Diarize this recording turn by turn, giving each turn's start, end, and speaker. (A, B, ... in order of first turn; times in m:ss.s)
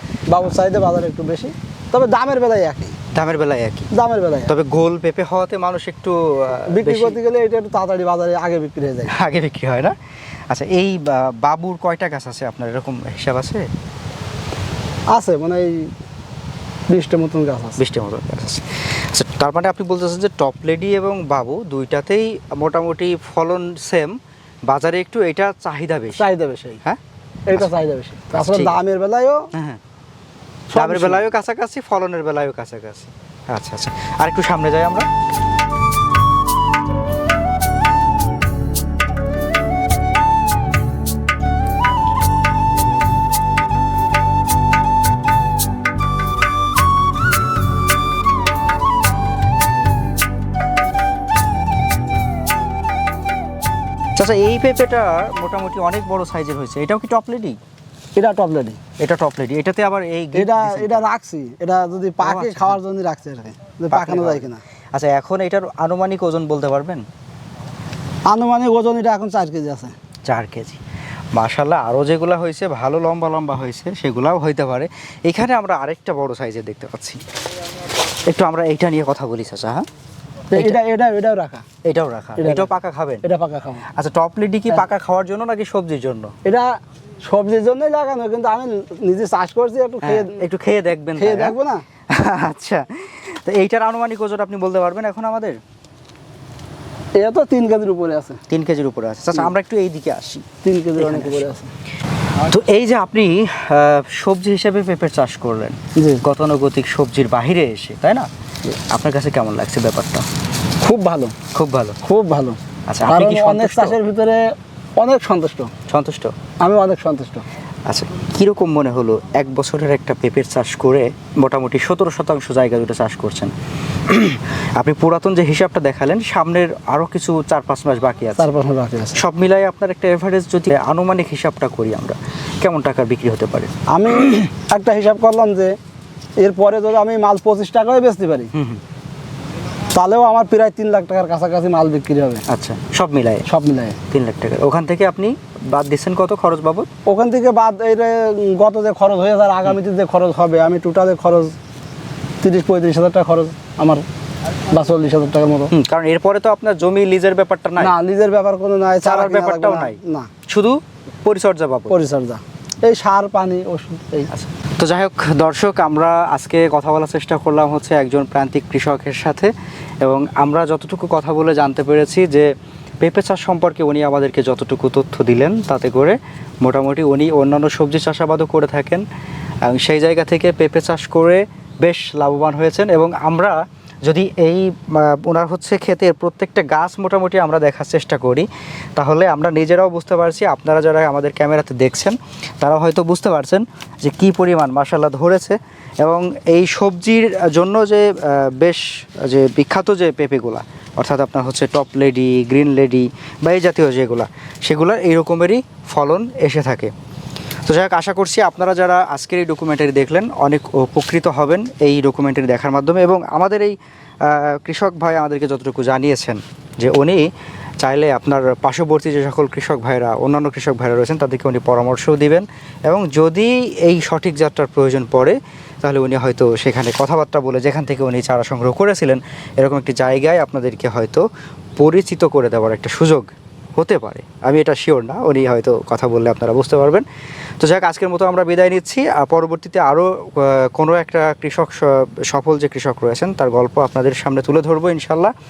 0:00.3-0:03.0 A
0:03.1-0:03.9 B
0:03.9-0:04.5 A
0:04.5-0:07.2 B
0:06.7-0:09.1 A
0:09.1-0:09.9 B
0:10.5-0:13.7 B
0:15.1-0:15.9 A
0:16.9-0:17.8 A
0:17.8-0:24.1 B
0:24.7-0:26.2 B
0:26.1-0:26.8 A
0:27.5-0:29.4 A
0:28.3-0:28.8 B
0:29.5-0:29.8 B
0:30.7-0:31.2 A
0:30.7-0:35.1 B
0:54.2-0:57.6 B
0:58.2-0:58.8 A
0:59.0-1:01.0 B
1:00.3-1:04.6 A
1:02.2-1:02.8 B
1:03.9-1:07.0 B
1:08.3-1:09.9 A
1:10.2-1:10.8 B
1:11.3-1:17.2 B
1:18.3-1:19.8 B
1:20.5-1:21.6 A
1:21.8-1:23.2 B
1:22.4-1:22.7 A
1:23.2-1:23.9 A
1:23.9-1:26.3 B
1:27.2-1:30.4 A
1:30.0-1:31.6 B
1:31.2-1:31.8 A
1:32.1-1:35.6 B
1:37.2-1:38.4 A
1:38.5-1:40.4 B
1:40.6-1:41.7 A
1:41.0-1:41.5 B
1:42.4-1:50.2 B
1:46.0-1:46.2 A
1:50.8-1:51.3 A
1:51.5-1:52.0 B
1:52.0-1:54.4 A
1:52.9-1:54.0 B
1:55.0-1:55.7 A
1:55.9-1:56.3 B
1:56.6-1:57.4 A
1:57.8-2:03.5 B
2:04.0-2:08.5 B
2:08.4-2:09.2 A
2:09.2-2:13.7 B
2:13.9-2:15.7 A
2:16.4-2:18.5 A
2:18.5-2:18.8 B
2:19.9-2:22.4 A
2:22.5-2:23.4 B
2:23.4-2:24.0 A
2:24.1-2:26.9 B
2:27.0-2:31.5 A
2:32.4-2:34.0 A
2:34.7-2:35.7 A
2:35.7-2:38.0 B
2:37.8-2:40.3 A
2:39.0-2:41.9 B
2:41.9-2:44.3 A
2:44.3-2:49.5 B
2:50.0-2:52.5 B
2:53.0-2:59.0 B
2:59.6-3:26.9 B
3:27.6-3:37.2 B
3:37.8-3:51.2 B
3:51.8-3:57.0 B
3:57.6-4:05.3 B